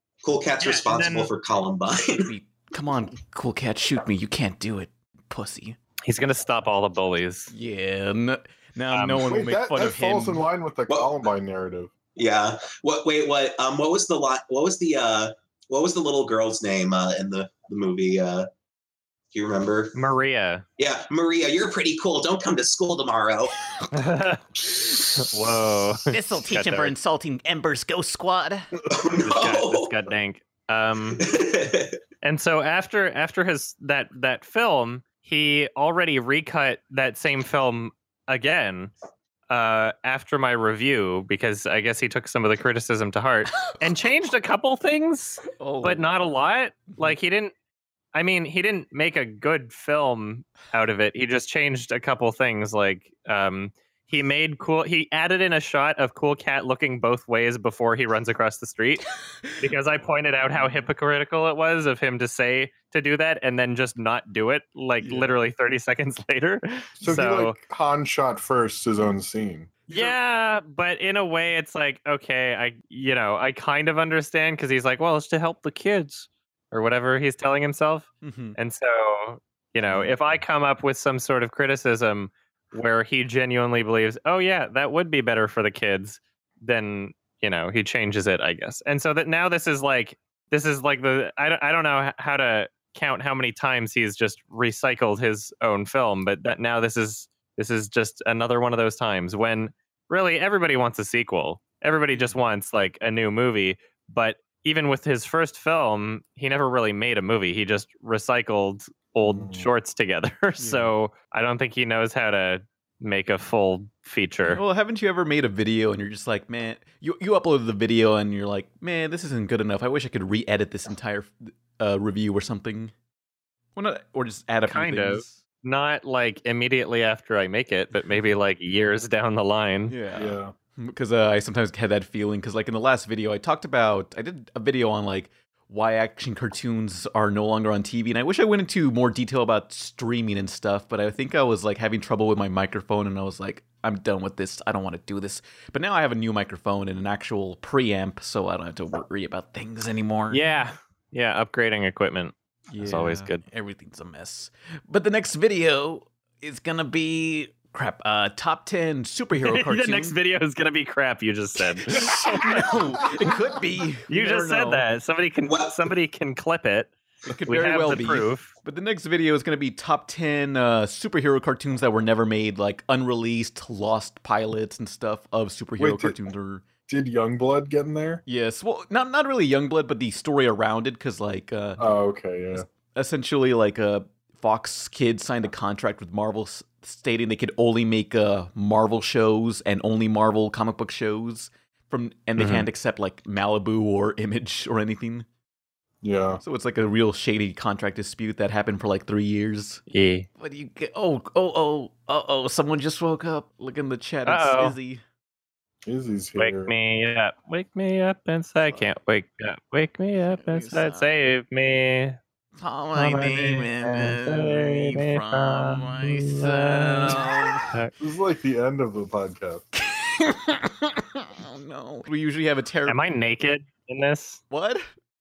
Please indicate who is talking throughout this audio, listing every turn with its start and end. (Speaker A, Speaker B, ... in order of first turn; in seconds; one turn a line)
Speaker A: 0.2-2.3
Speaker B: 0.6-1.3
Speaker C: 2.2-5.8
Speaker B: 6.1-7.5
Speaker C: 7.5-10.5
Speaker B: 8.9-9.3
Speaker D: 9.2-11.9
Speaker A: 12.2-18.5
Speaker A: 19.3-19.9
Speaker B: 19.9-20.6
Speaker A: 20.8-23.6
Speaker B: 23.9-24.4
Speaker B: 25.1-26.9
Speaker C: 26.1-28.7
Speaker A: 28.9-29.9
Speaker B: 29.2-31.2
Speaker A: 31.2-32.0
Speaker B: 32.2-38.9
Speaker B: 39.5-47.5
Speaker C: 45.6-46.1
Speaker C: 46.9-47.2
Speaker B: 48.1-59.1
Speaker B: 59.6-67.6
Speaker C: 65.0-65.3
Speaker D: 67.0-70.2
Speaker B: 69.9-114.6
Speaker C: 78.2-78.6
Speaker D: 79.9-80.2
Speaker D: 109.2-109.7
Speaker C: 110.6-110.9
Speaker C: 114.5-122.9
Speaker C: 123.8-125.4
Speaker B: 124.7-129.9
Speaker C: 129.9-150.4
Speaker D: 130.2-130.5
Speaker B: 150.3-153.4
Speaker C: 152.7-160.2
Speaker B: 159.4-162.6
Speaker C: 161.8-164.8
Speaker B: 164.1-166.9
Speaker A: 165.5-165.7
Speaker C: 167.3-176.7
Speaker B: 167.5-168.5
Speaker D: 175.8-176.2
Speaker D: 176.9-178.2
Speaker C: 178.3-181.8
Speaker D: 181.8-182.7
Speaker C: 182.5-195.3
Speaker B: 192.4-192.7
Speaker D: 196.0-196.4
Speaker C: 196.4-199.8
Speaker B: 199.9-200.3
Speaker C: 200.4-205.0
Speaker B: 204.2-204.8
Speaker D: 205.8-206.7
Speaker B: 206.4-212.2
Speaker C: 210.3-211.2
Speaker C: 212.6-217.7
Speaker B: 212.9-217.9
Speaker D: 218.0-219.7
Speaker C: 219.8-223.0
Speaker B: 222.9-224.4
Speaker C: 224.5-224.9